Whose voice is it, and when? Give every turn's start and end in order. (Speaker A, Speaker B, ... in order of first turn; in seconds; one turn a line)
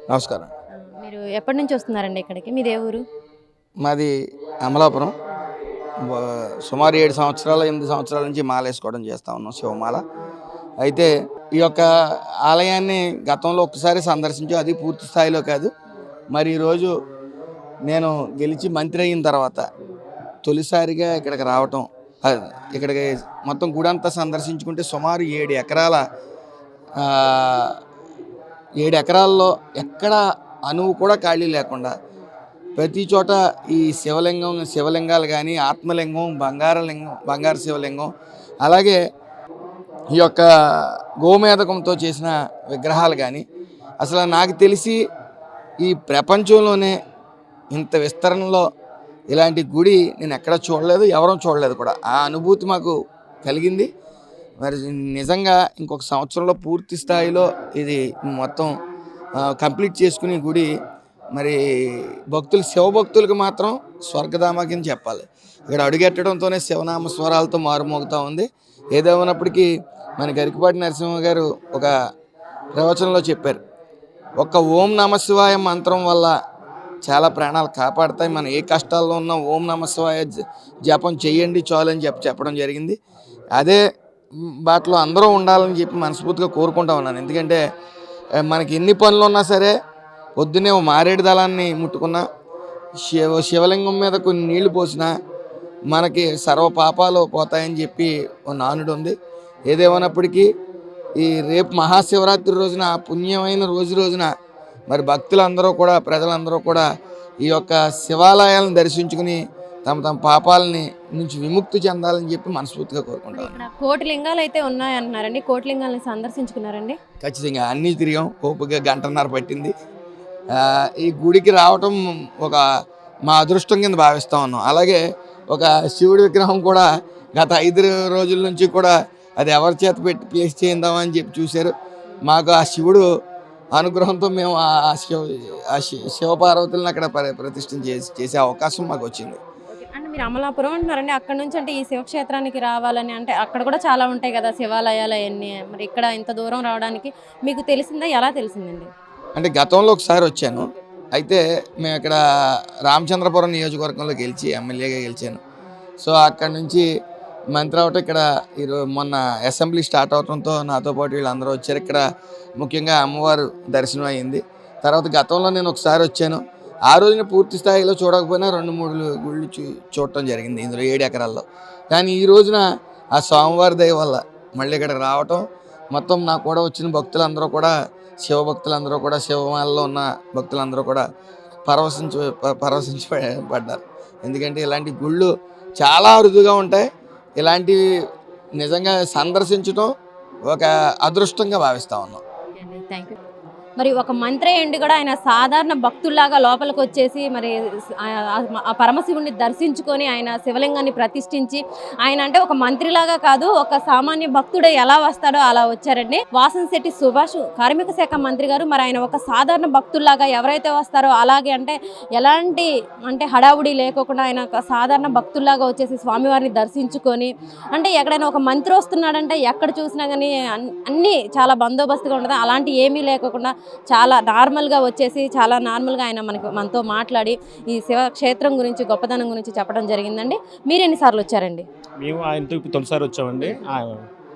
Speaker A: 0.1-0.5
Speaker B: 0.8-3.0
Speaker A: 3.8-4.1
Speaker A: 4.6-5.1
Speaker A: 6.0-10.0
Speaker A: 10.8-11.9
Speaker A: 12.4-15.7
Speaker A: 16.3-16.9
Speaker A: 17.9-19.6
Speaker A: 20.4-26.0
Speaker A: 27.0-27.7
Speaker A: 28.8-31.9
Speaker A: 32.8-38.1
Speaker A: 38.6-39.0
Speaker A: 40.1-43.4
Speaker A: 44.0-45.0
Speaker A: 45.8-46.9
Speaker A: 47.7-48.6
Speaker A: 49.3-53.9
Speaker A: 54.6-58.7
Speaker A: 59.4-60.7
Speaker A: 62.3-69.7
Speaker A: 70.2-71.9
Speaker A: 72.8-73.6
Speaker A: 74.4-76.3
Speaker A: 77.0-80.3
Speaker A: 80.9-83.0
Speaker A: 83.5-83.8
Speaker A: 84.5-87.6
Speaker A: 88.5-89.7
Speaker A: 90.4-92.2
Speaker A: 93.0-95.1
Speaker A: 95.9-99.1
Speaker A: 99.7-100.5
Speaker A: 101.2-104.3
Speaker A: 104.9-106.8
Speaker A: 107.4-113.5
Speaker B: 113.3-117.0
Speaker A: 117.2-119.7
Speaker A: 120.5-122.6
Speaker A: 123.3-125.0
Speaker A: 125.5-131.7
Speaker A: 132.3-133.0
Speaker A: 133.8-139.4
Speaker B: 139.7-148.9
Speaker A: 149.3-152.2
Speaker A: 152.9-155.4
Speaker A: 156.0-156.8
Speaker A: 157.5-162.0
Speaker A: 162.6-172.6
Speaker A: 173.1-175.4
Speaker A: 175.9-181.0
Speaker A: 181.7-186.8
Speaker A: 187.4-187.8
Speaker A: 188.6-189.9
Speaker A: 190.5-192.2
Speaker B: 192.6-193.2
Speaker B: 193.8-231.6
Speaker C: 232.0-234.1